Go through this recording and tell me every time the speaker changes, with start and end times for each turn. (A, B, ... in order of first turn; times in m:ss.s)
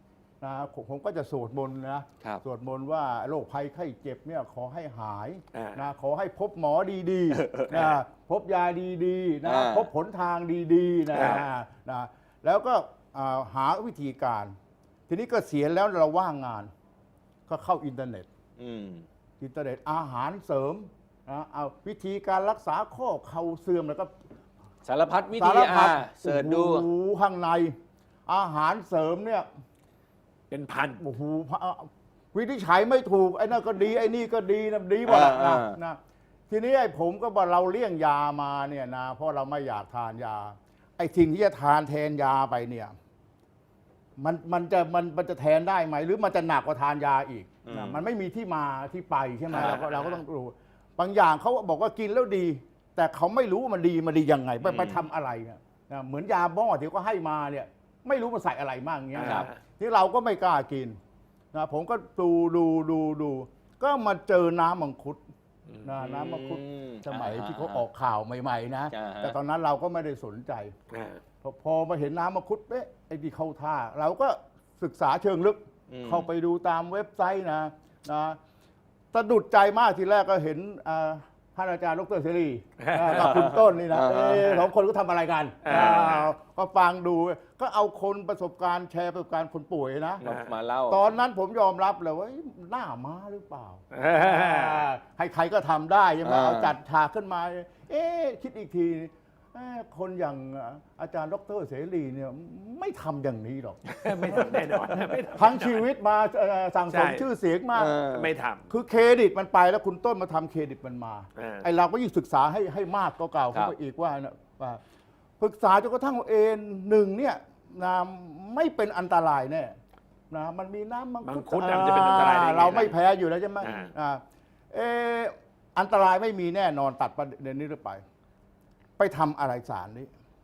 0:00.4-0:14.6 A
0:05.5-0:05.8 B
0:07.3-0:08.0 C
0:09.4-0:09.9 C
0:11.1-0:11.5 B
0:15.1-0:16.7 A
0:17.5-0:18.3 A
0:18.6-0:19.1 C
0:19.4-0:24.1 A
0:24.8-0:26.9 C
0:25.3-0:27.8 A
0:28.3-0:29.5 A
0:30.5-0:31.0 B
0:31.0-0:42.9 A
0:35.0-0:35.8 C
0:44.2-1:01.0 A
0:47.7-0:48.0 C
0:49.5-0:50.1 C
0:49.7-0:50.2 B
0:54.6-0:55.1 C
0:59.1-0:59.6 B
0:59.2-0:59.5 C
1:01.5-1:05.2 A
1:05.7-1:05.9 B
1:05.8-1:10.7 A
1:06.0-1:07.8 C
1:08.9-1:09.4 C
1:10.9-1:11.2 B
1:11.4-1:18.4 A
1:15.9-1:16.3 C
1:19.1-1:30.2 A
1:22.8-1:23.2 B
1:23.1-1:24.6 C
1:25.6-1:26.3 B
1:25.7-1:26.1 C
1:30.2-1:31.2 C
1:30.2-1:30.5 B
1:30.9-1:48.0 A
1:33.9-1:34.9 B
1:36.2-1:36.8 C
1:43.9-1:45.9 B
1:46.9-1:47.2 B
1:47.7-1:48.3 C
1:48.1-1:48.6 B
1:48.7-1:54.8 A
1:51.4-1:51.7 B
1:55.4-1:59.8 A
2:00.3-2:08.0 A
2:01.2-2:03.0 B
2:03.6-2:03.9 B
2:09.0-2:10.1 A